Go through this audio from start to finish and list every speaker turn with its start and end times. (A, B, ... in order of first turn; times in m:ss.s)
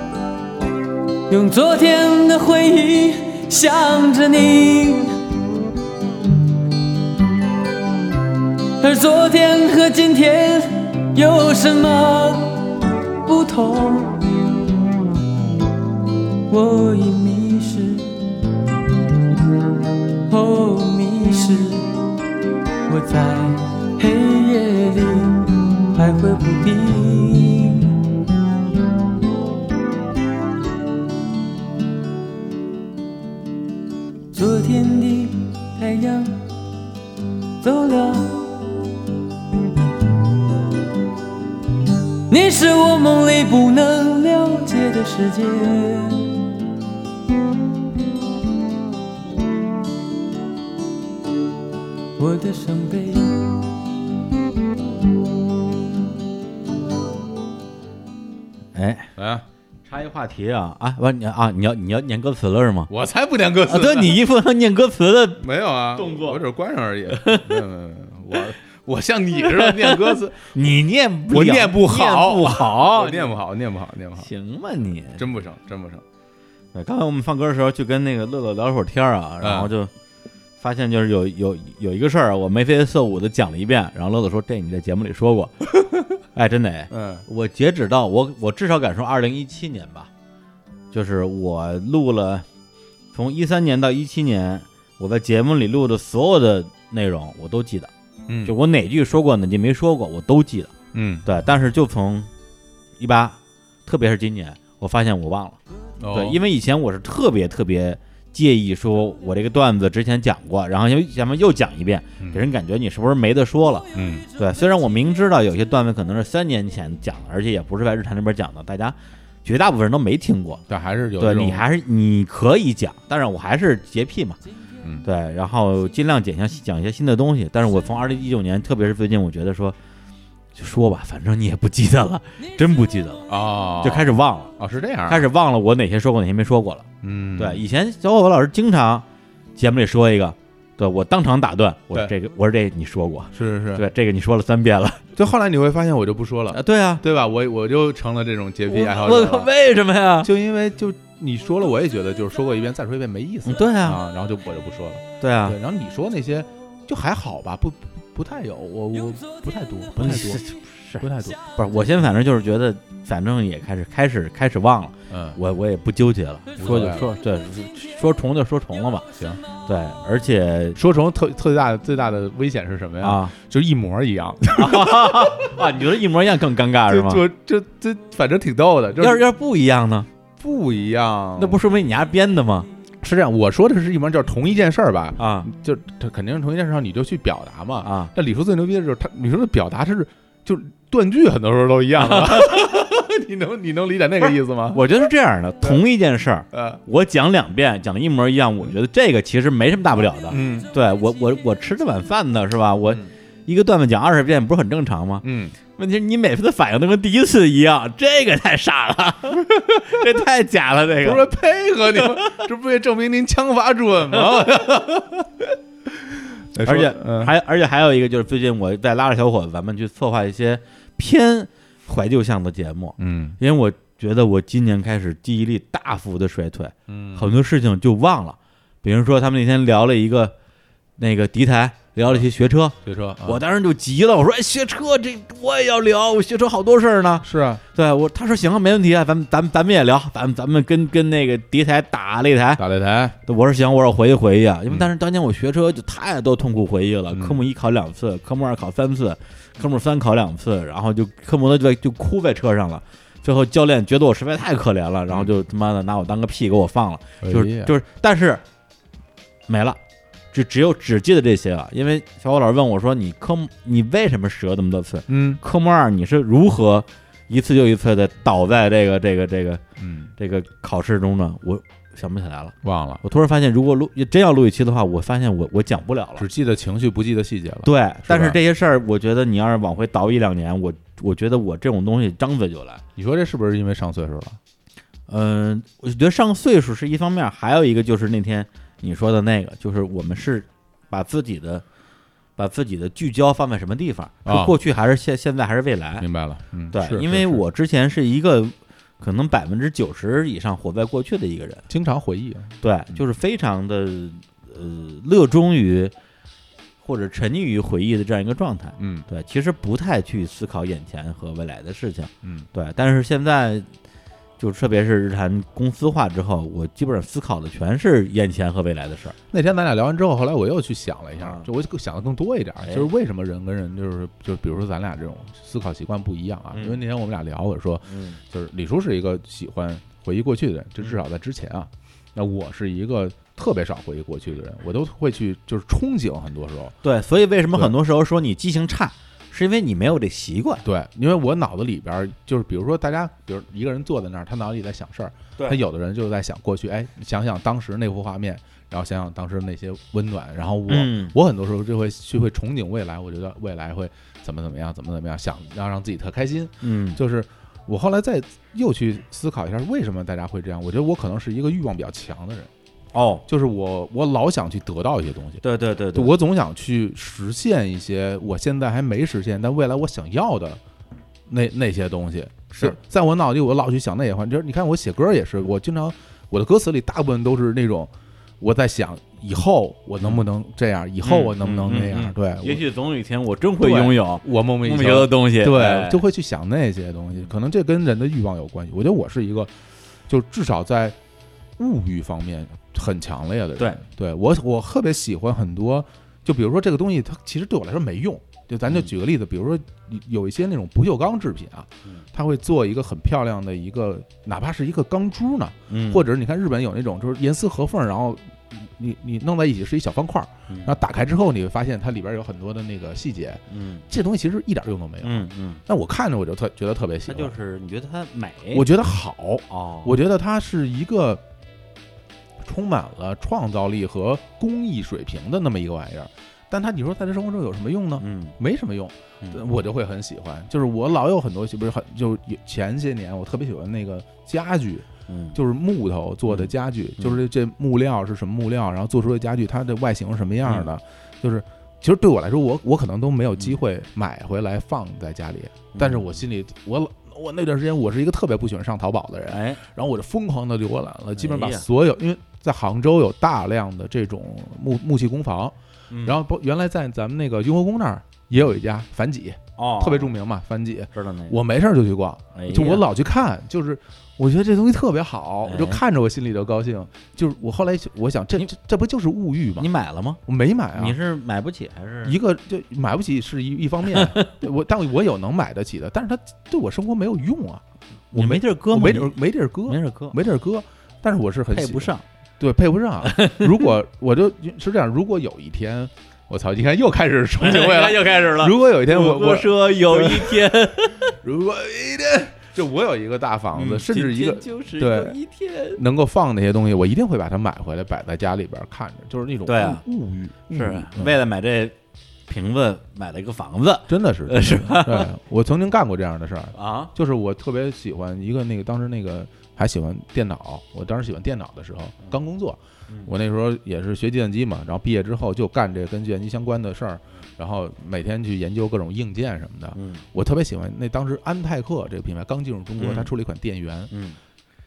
0:01.3-0:05.2 A
0:08.8-0:14.5 A
0:16.5-0:18.2 A
0:20.3-0:21.9 A
0:22.9-0:28.0 A
0:34.3-0:36.4 A
0:37.6-0:38.7 A
0:42.3-0:46.3 A
0:52.2-0:53.5 A
0:58.7-0:59.1 B
0:59.2-0:59.4 C
0:59.8-1:02.9 B
1:02.9-1:04.2 C
1:03.6-1:06.4 B
1:05.4-1:10.5 C
1:07.1-1:07.6 B
1:09.4-1:13.3 B
1:11.3-1:14.3 C
1:14.2-1:15.2 B
1:15.2-1:16.0 C
1:16.7-1:19.9 B
1:19.4-1:19.7 C
1:20.6-1:25.6 B
1:25.8-1:26.1 C
1:26.3-1:30.1 B
1:26.9-1:27.2 C
1:30.9-1:32.4 B
1:33.1-1:37.9 B
1:38.3-1:38.5 C
1:38.4-1:40.7 B
1:40.9-1:41.3 C
1:41.2-1:42.3 B
1:43.0-1:45.6 B
1:46.0-1:46.4 C
1:46.1-1:53.8 B
1:52.2-1:52.4 C
1:53.9-1:54.3 C
1:54.4-2:00.6 B
2:00.7-2:01.6 C
2:01.2-2:04.4 B
2:05.0-2:09.8 B
2:10.5-2:13.3 B
2:13.3-2:15.3 C
2:13.8-2:14.5 B
2:15.1-2:19.0 B
2:17.0-2:17.6 C
2:19.6-2:25.0 B
2:23.3-2:23.8 C
2:25.2-2:29.5 C
2:26.5-2:27.0 B
2:28.7-2:30.3 B
2:30.2-2:40.4 C
2:33.4-2:34.0 B
2:35.2-2:35.6 B
2:40.0-2:49.1 B
2:41.0-2:41.4 C
2:45.1-2:45.4 C
2:46.6-2:47.1 C
2:49.2-2:49.4 C
2:49.6-2:50.8 B
2:50.8-2:55.5 C
2:53.0-2:53.3 B
2:54.5-2:57.2 B
2:56.9-2:59.2 C
2:59.0-3:00.1 B
3:00.4-3:01.6 C
3:01.4-3:02.7 B
3:03.0-3:14.9 C
3:05.2-3:05.5 B
3:07.8-3:08.1 B
3:12.0-3:12.6 B
3:14.7-3:31.3 B
3:16.5-3:16.8 C
3:20.3-3:20.7 C
3:25.2-3:25.6 C
3:29.5-3:30.0 C
3:31.0-3:37.3 C
3:36.6-3:50.3 B
3:43.0-3:43.4 C
3:46.9-3:47.3 C
3:51.0-4:02.6 B
3:52.8-3:53.4 C
3:57.2-3:57.6 C
4:02.6-4:03.2 C
4:03.2-4:18.4 B
4:07.1-4:07.4 C
4:17.2-4:17.7 C
4:19.5-4:19.8 B
4:20.3-4:29.6 B
4:25.1-4:25.4 C
4:29.8-4:30.1 C
4:30.2-4:36.2 B
4:32.6-4:33.0 C
4:36.2-4:38.4 C
4:37.6-4:42.8 B
4:43.0-4:44.4 C
4:45.1-4:51.6 B
4:52.4-4:56.1 B
4:54.2-4:54.5 C
4:56.0-4:57.4 C
4:56.7-5:01.6 B
5:01.7-5:03.0 C
5:02.6-5:05.9 B
5:06.8-5:13.7 B
5:08.8-5:09.1 C
5:14.4-5:19.2 B
5:19.3-5:36.8 C
5:21.2-5:21.5 B
5:22.6-5:22.9 B
5:26.5-5:26.8 B
5:27.9-5:28.2 B
5:36.8-5:40.6 B
5:40.6-6:02.5 C
5:50.7-5:51.1 B
5:56.6-5:57.0 B
6:02.9-6:03.2 B
6:03.3-6:05.4 C
6:05.4-6:06.1 B
6:05.9-6:10.6 C
6:11.3-6:22.6 C
6:21.0-6:26.0 B
6:23.6-6:29.5 C
6:30.1-6:31.0 C
6:31.6-6:57.3 C
6:45.7-6:46.0 B
6:50.5-6:50.8 B
6:53.5-6:53.8 B
6:55.0-6:55.6 B
6:57.1-6:58.6 B
6:58.5-7:01.2 C
6:59.5-7:00.0 B
7:02.4-7:49.7 C
7:08.0-7:08.4 B
7:15.1-7:15.4 B
7:16.3-7:17.2 B
7:25.7-7:26.1 B
7:29.3-7:29.6 B
7:31.2-7:31.6 B
7:35.9-7:36.2 B
7:39.6-7:40.1 B
7:40.9-7:41.4 B
7:42.3-7:42.8 B
7:45.4-7:45.8 B
7:49.6-7:50.2 B
7:50.2-7:51.0 C
7:50.7-7:52.2 B
7:52.0-8:15.2 C
7:53.9-7:54.3 B
7:58.1-8:00.2 B
8:01.5-8:02.0 B
8:03.0-8:03.6 B
8:07.4-8:11.1 B
8:13.5-8:15.8 B
8:15.7-8:21.1 C
8:19.5-8:19.8 B
8:20.5-8:21.7 B
8:22.3-8:25.1 B
8:23.9-8:43.9 C
8:26.5-8:26.9 B
8:39.7-8:40.0 B
8:42.8-8:43.1 B
8:43.9-8:44.2 B